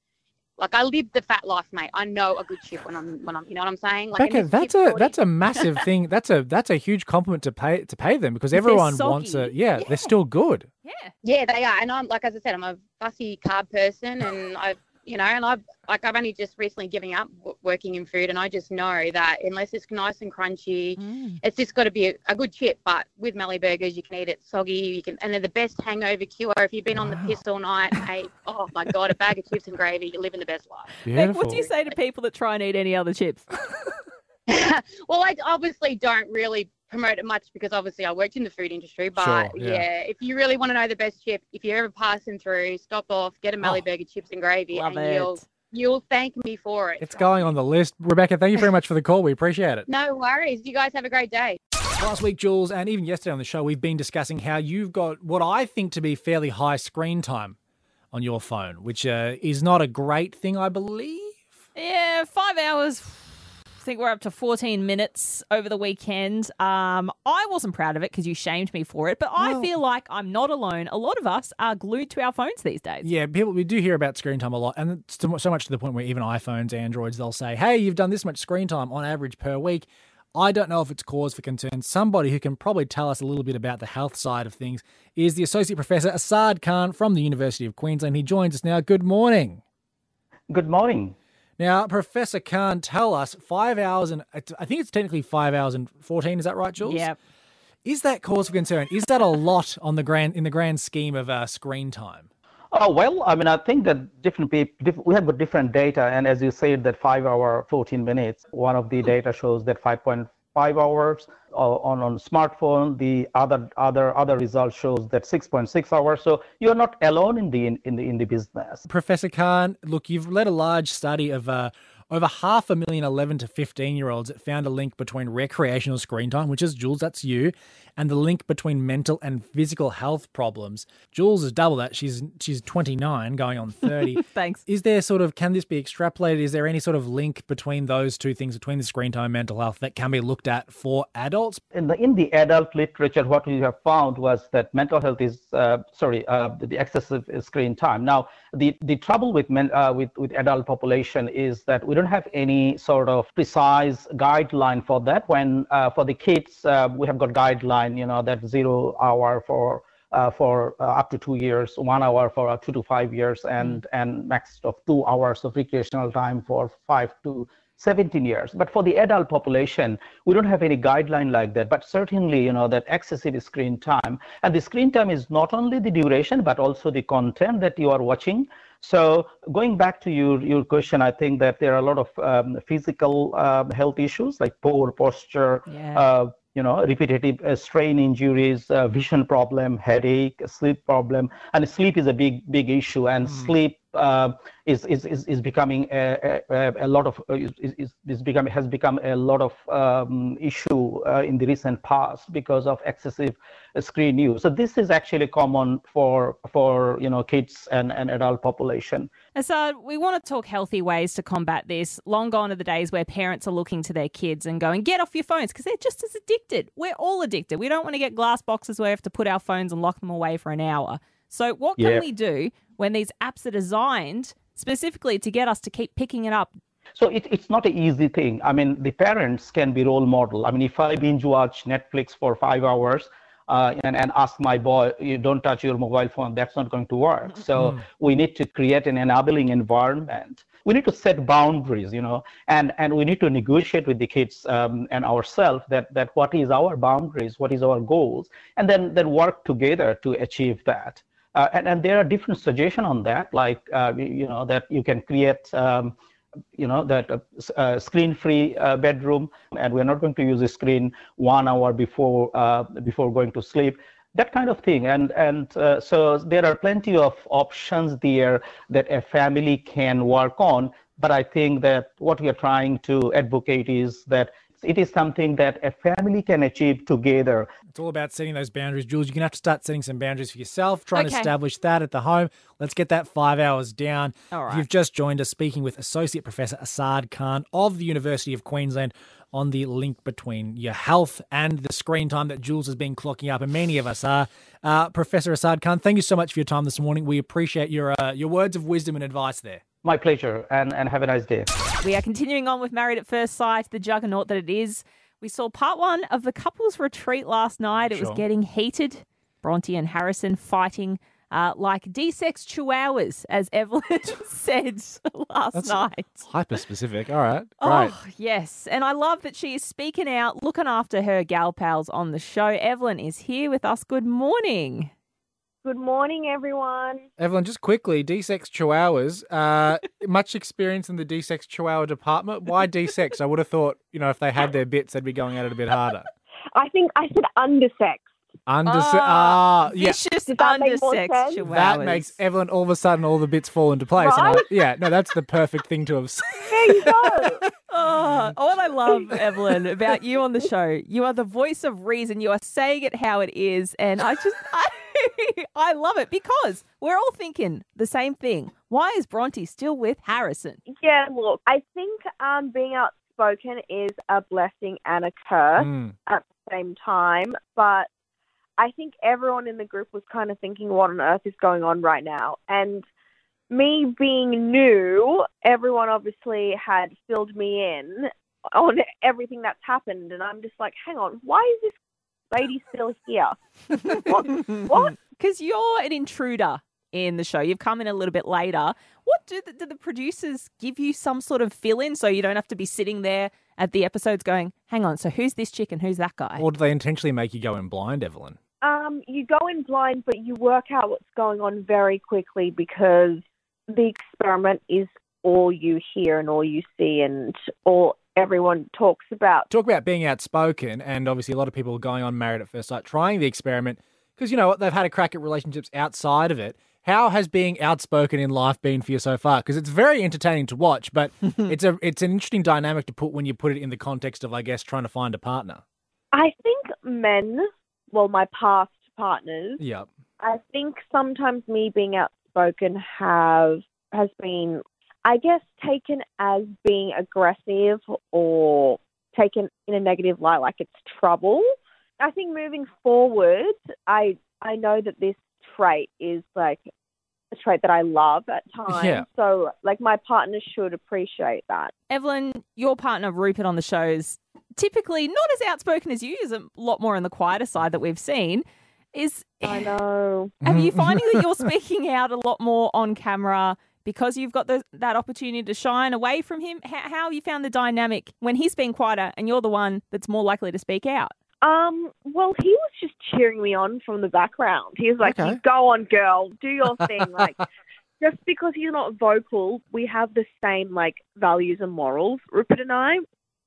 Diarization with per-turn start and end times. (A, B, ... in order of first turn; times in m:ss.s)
0:00.6-0:05.8 A
0:04.2-0:10.7 B
0:08.5-0:10.1 C
0:10.8-0:11.1 C
0:11.2-0:31.0 A
0:21.0-0:21.4 C
0:27.0-0:27.3 B
0:31.0-0:31.7 B
0:31.0-0:33.5 C
0:34.5-0:47.5 A
0:39.1-0:39.8 B
0:44.7-0:45.4 C
0:47.0-0:49.8 B
0:49.9-0:51.6 A
0:52.0-0:57.6 B
0:58.1-1:01.4 B
1:01.8-1:13.1 C
1:09.4-1:09.7 B
1:13.0-1:29.6 B
1:30.5-1:31.2 D
1:31.6-1:37.1 B
1:36.8-1:37.2 C
1:37.8-1:42.3 B
1:42.7-1:58.8 D
1:58.9-2:21.6 B
2:13.8-2:14.6 C
2:21.7-3:29.1 D
3:05.7-3:06.1 C
3:13.2-3:13.5 B
3:29.3-3:46.5 C
3:41.8-3:42.1 D
3:47.0-4:16.0 D
3:57.5-3:57.8 B
4:16.6-4:37.5 D
4:37.7-4:59.6 B
4:40.9-4:41.3 C
4:44.3-4:44.6 C
4:59.8-5:01.5 D
5:01.8-5:16.2 C
5:07.9-5:08.2 B
5:15.5-5:17.9 B
5:17.6-5:24.9 C
5:25.6-5:27.0 E
5:27.2-5:36.1 B
5:36.6-5:38.1 E
5:38.5-5:40.0 B
5:38.6-5:42.1 C
5:40.3-5:41.5 E
5:41.4-5:46.9 B
5:44.0-5:44.5 E
5:46.5-5:47.4 E
5:47.7-6:00.6 C
6:00.7-6:07.9 E
6:05.6-6:05.9 B
6:08.6-6:12.8 E
6:13.5-6:21.8 E
6:22.3-6:25.0 E
6:23.9-6:36.4 C
6:36.4-6:38.4 B
6:38.6-6:49.4 E
6:49.5-7:05.6 B
7:06.1-7:09.6 E
7:09.6-7:09.9 B
7:10.2-7:21.5 E
7:22.0-7:26.7 E
7:27.3-7:31.7 E
7:28.7-7:29.0 B
7:31.9-7:39.7 C
7:39.4-7:40.3 E
7:40.4-7:51.1 C
7:40.4-7:41.2 B
7:51.4-7:57.5 E
7:55.0-7:55.4 B
7:58.0-8:03.0 E